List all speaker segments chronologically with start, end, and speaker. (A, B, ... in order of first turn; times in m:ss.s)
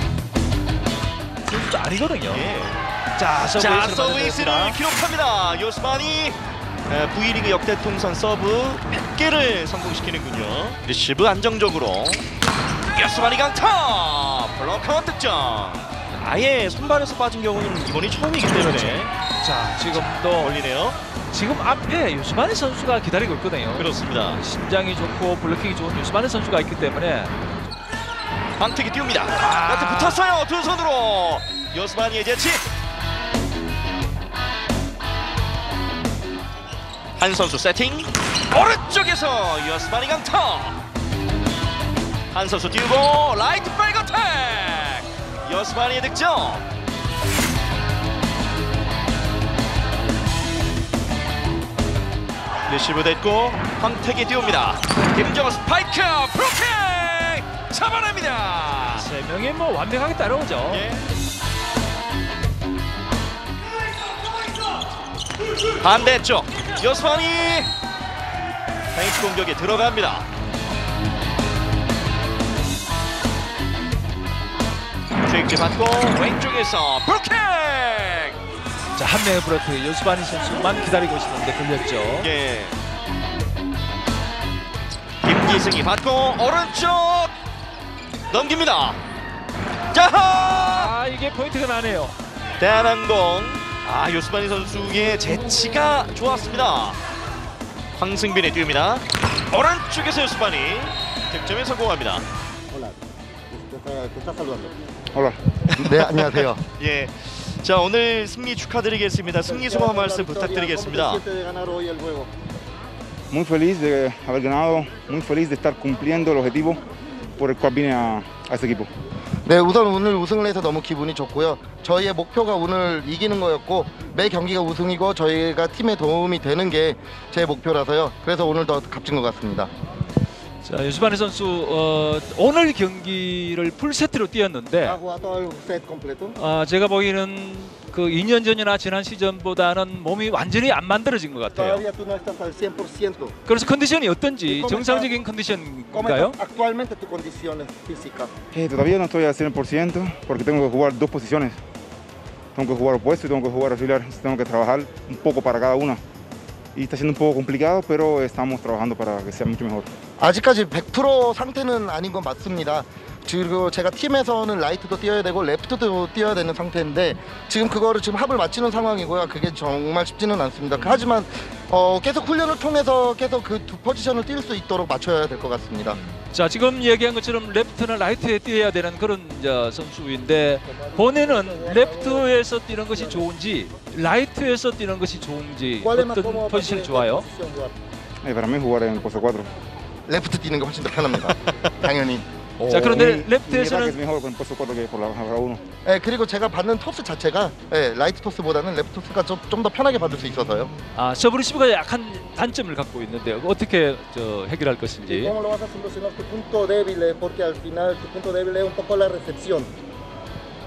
0:01.4-0:02.5 A
0:02.3-0:02.8 B
0:03.2-0:04.8 A
0:03.5-0:12.2 B
0:12.9-0:19.1 B
0:18.6-0:20.6 A
0:19.9-0:21.0 B
0:21.3-0:27.3 A
0:23.8-0:24.4 B
0:28.6-0:32.6 B
0:29.4-0:30.2 A
0:37.2-0:40.8 B
0:42.3-0:46.6 B
0:52.7-0:59.1 B
0:58.9-1:00.9 A
1:00.7-1:01.0 B
1:05.8-1:07.7 B
1:08.9-1:10.3 B
1:15.2-1:18.4 B
1:19.0-1:22.3 A
1:22.2-1:22.8 B
1:25.2-1:27.3 B
1:28.3-1:29.0 B
1:29.9-1:30.9 B
1:30.6-1:32.2 A
1:32.6-1:37.0 B
1:38.0-1:42.3 B
1:42.7-1:44.8 C
1:45.1-1:46.0 D
1:45.7-1:51.2 B
1:45.8-1:46.6 C
1:49.5-1:52.3 C
1:53.3-1:56.8 D
1:57.4-1:58.9 D
1:59.5-2:09.7 C
2:10.6-2:15.0 A
2:14.8-2:16.4 C
2:16.4-2:21.8 A
2:21.5-2:23.4 C
2:23.5-2:26.4 A
2:24.5-2:25.1 C
2:25.9-2:28.3 C
2:28.5-2:31.6 D
2:32.6-2:36.0 D
2:36.8-2:39.9 D
2:40.2-2:56.0 C
2:56.1-3:07.3 A
3:00.7-3:03.3 C
3:05.8-3:07.7 C
3:08.2-3:09.5 D
3:10.1-3:13.1 C
3:12.7-3:14.0 A
3:12.7-3:15.6 D
3:15.8-3:20.7 C
3:20.9-3:25.4 A
3:25.1-3:29.7 C